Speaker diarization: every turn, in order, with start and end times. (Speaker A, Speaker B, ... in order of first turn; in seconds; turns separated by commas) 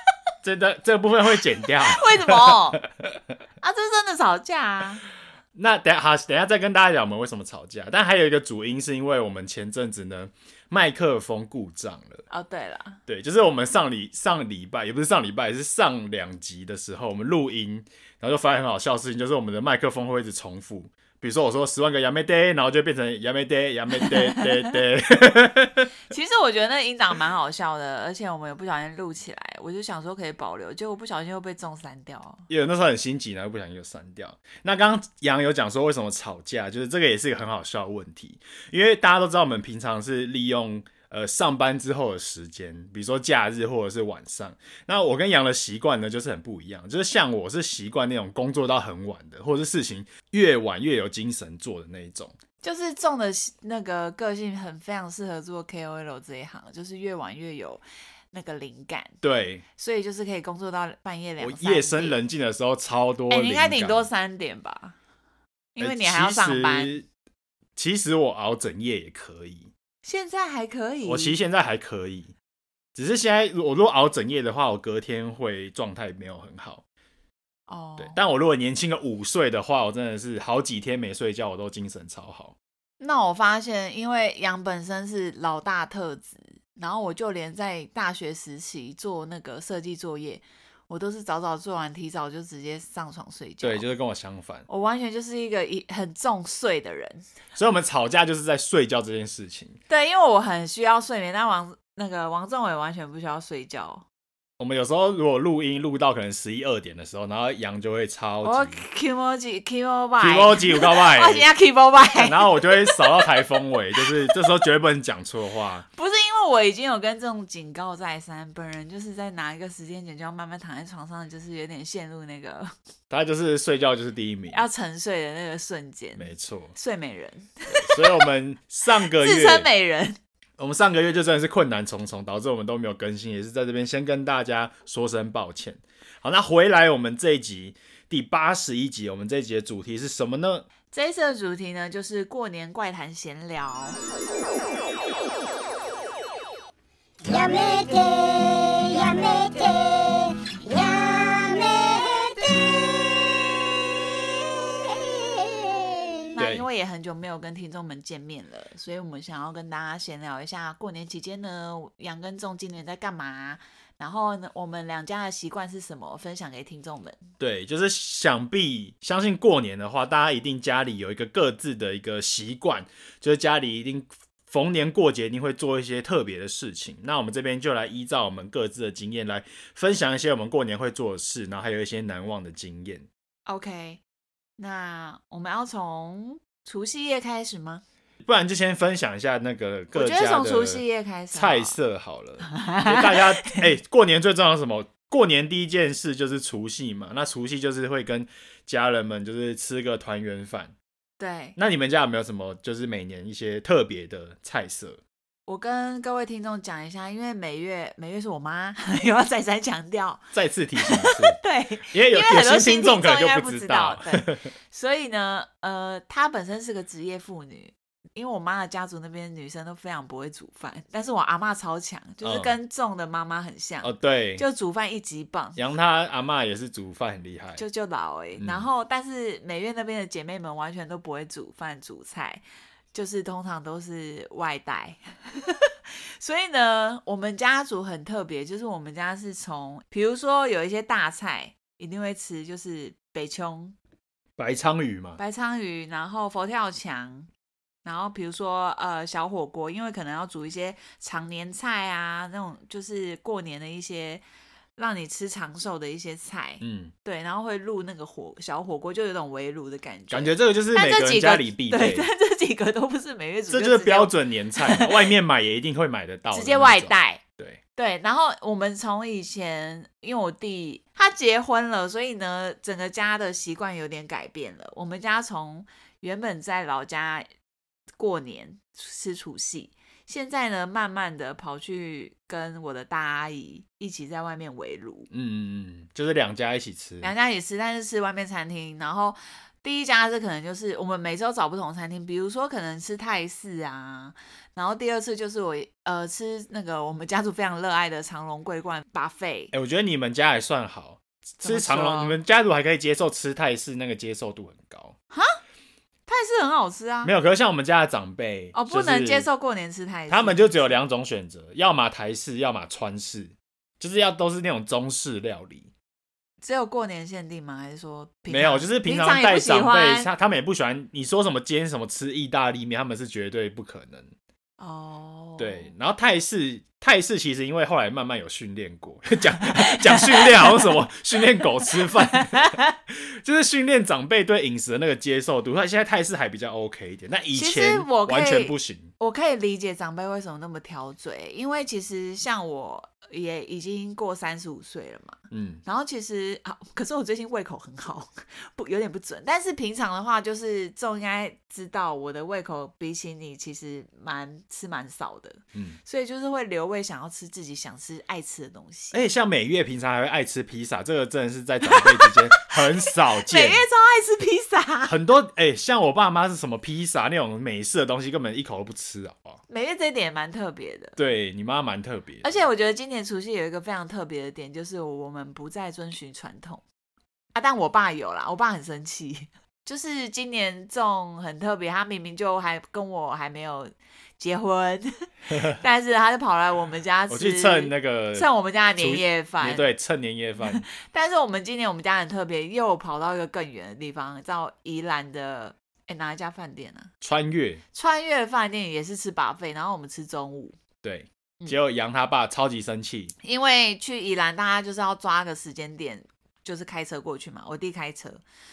Speaker A: 0.4-2.8, Speaker B: 1.6-2.8, Speaker B: 3.6-5.0, Speaker A: 5.5-12.2, Speaker B: 12.3-13.0, Speaker A: 13.1-25.9, Speaker B: 24.0-24.7, Speaker B: 26.1-32.5, Speaker A: 32.5-52.4, Speaker B: 52.6-59.2, Speaker A: 59.2-59.6, Speaker B: 59.8-62.2, Speaker A: 61.4-64.1, Speaker B: 63.3-65.0, Speaker B: 65.8-67.0, Speaker A: 65.8-67.0, Speaker A: 67.8-69.7, Speaker B: 70.0-71.3, Speaker A: 71.0-72.3, Speaker A: 72.9-76.8, Speaker B: 77.7-78.2, Speaker A: 78.0-82.5, Speaker B: 83.0-93.8, Speaker A: 93.6-94.7, Speaker B: 94.7-97.3, Speaker A: 97.5-99.8, Speaker B: 99.9-104.0, Speaker A: 104.6-108.8, Speaker B: 108.4-113.3, Speaker A: 110.2-111.5, Speaker A: 112.1-115.8, Speaker B: 115.9-122.7, Speaker A: 123.1-124.6, Speaker B: 124.5-128.2, Speaker A: 126.2-126.7, Speaker A: 127.7-129.7, Speaker B: 129.0-130.2, Speaker A: 130.6-140.6, Speaker B: 140.9-144.0, Speaker C: 147.2-153.6, Speaker C: 154.8-156.2, Speaker B: 156.4-167.2, Speaker A: 156.4-156.7, Speaker A: 167.4-183.1, Speaker B: 183.4-184.0, Speaker B: 184.6-187.8, Speaker A: 188.2-200.7, Speaker B: 189.9-191.8, Speaker B: 192.5-193.6, Speaker B: 201.2-201.6, Speaker A: 201.6-205.0, Speaker B: 205.5-225.6, Speaker A: 210.3-214.5, Speaker A: 222.2-222.5, Speaker A: 223.8-224.4, Speaker A: 225.6-227.6, Speaker B: 227.6-243.8, Speaker A: 228.4-228.7, Speaker A: 244.4-245.2, Speaker B: 245.2-247.3, Speaker B: 247.8-254.2, Speaker B: 254.8-265.1, Speaker A: 256.6-256.9, Speaker A: 260.1-262.1, Speaker A: 263.5-267.6, Speaker B: 266.3-267.2, Speaker B: 267.8-277.3, Speaker B: 278.0-285.1, Speaker A: 285.1-287.1, Speaker B: 287.0-299.5, Speaker A: 299.5-304.9, Speaker B: 301.4-302.2, Speaker B: 306.1-307.1, Speaker A: 307.0-309.3, Speaker B: 308.5-310.7, Speaker A: 310.1-315.7, Speaker B: 316.4-320.1, Speaker A: 318.3-324.1, Speaker B: 324.6-325.7, Speaker A: 325.4-338.9, Speaker B: 329.4-330.8, Speaker B: 331.6-332.7, Speaker B: 337.4-359.0, Speaker A: 345.3-345.6, Speaker A: 355.5-355.8, Speaker A: 358.9-363.6, Speaker B: 361.6-364.9, Speaker A: 364.9-369.4, Speaker B: 369.5-371.0, Speaker A: 370.9-372.4, Speaker B: 372.2-376.6, Speaker B: 377.3-389.6, Speaker A: 385.3-385.6, Speaker A: 387.1-390.6, Speaker B: 390.5-396.9, Speaker A: 397.0-397.6, Speaker B: 397.7-400.6, Speaker A: 400.8-403.1, Speaker B: 403.2-408.2